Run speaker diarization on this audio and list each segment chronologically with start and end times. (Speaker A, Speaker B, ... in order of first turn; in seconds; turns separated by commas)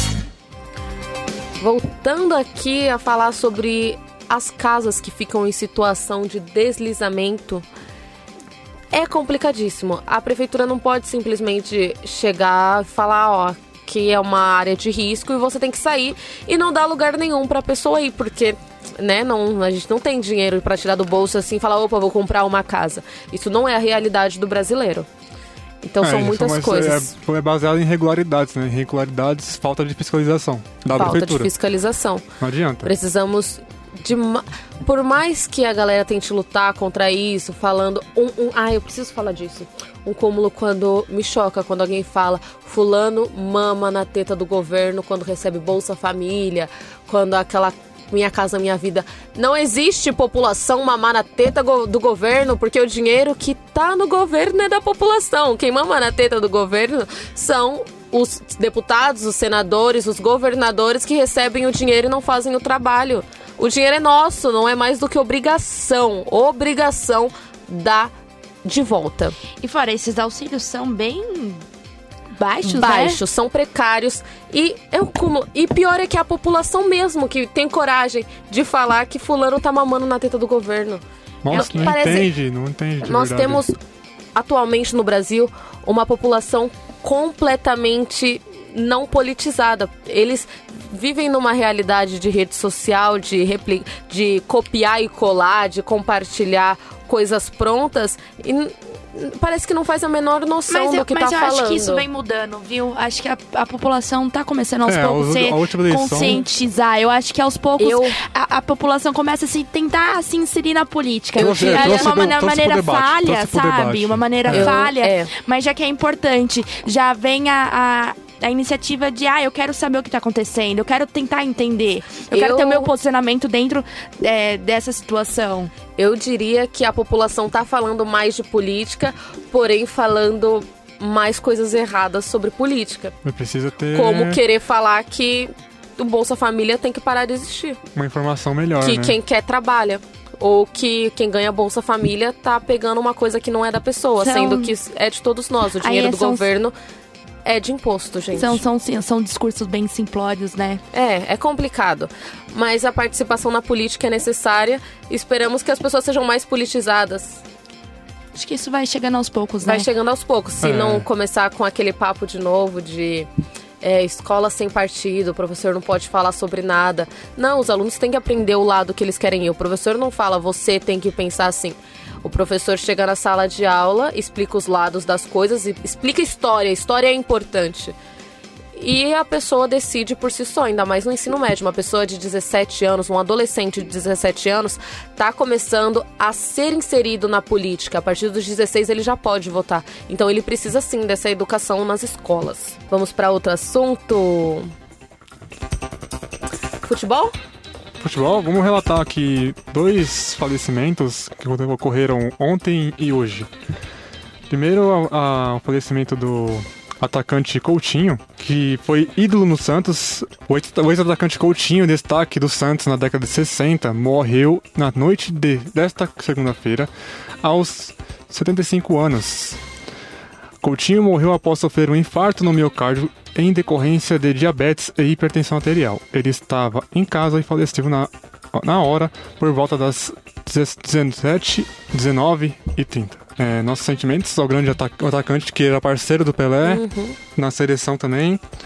Speaker A: 1.6-7.7, Speaker A: 8.9-25.1, Speaker A: 25.8-27.1, Speaker B: 26.0-31.5, Speaker A: 30.9-32.2, Speaker B: 32.4-32.9, Speaker A: 32.8-68.1, Speaker A: 68.6-69.3, Speaker C: 69.6-71.6, Speaker A: 72.4-82.3, Speaker C: 72.5-73.2, Speaker B: 81.4-83.6, Speaker A: 83.0-83.8, Speaker A: 84.3-102.0, Speaker C: 100.7-125.7, Speaker B: 104.8-106.4, Speaker A: 107.8-108.2, Speaker A: 111.3-112.2, Speaker B: 111.3-114.7, Speaker A: 114.5-115.3, Speaker A: 122.3-122.9, Speaker A: 126.0-133.1, Speaker B: 133.2-134.4, Speaker A: 133.9-137.8, Speaker B: 137.9-139.2, Speaker A: 138.8-146.7, Speaker C: 144.2-144.7, Speaker C: 145.8-146.5, Speaker A: 147.4-148.6, Speaker C: 148.3-150.8, Speaker A: 150.9-157.4, Speaker C: 158.3-159.9, Speaker A: 159.6-163.3, Speaker B: 160.6-161.1, Speaker A: 163.8-177.9, Speaker A: 178.7-194.7, Speaker A: 196.8-197.3, Speaker B: 198.0-203.5, Speaker B: 204.5-216.9, Speaker B: 217.4-219.6, Speaker B: 220.6-236.8, Speaker A: 236.6-237.2, Speaker B: 237.3-238.4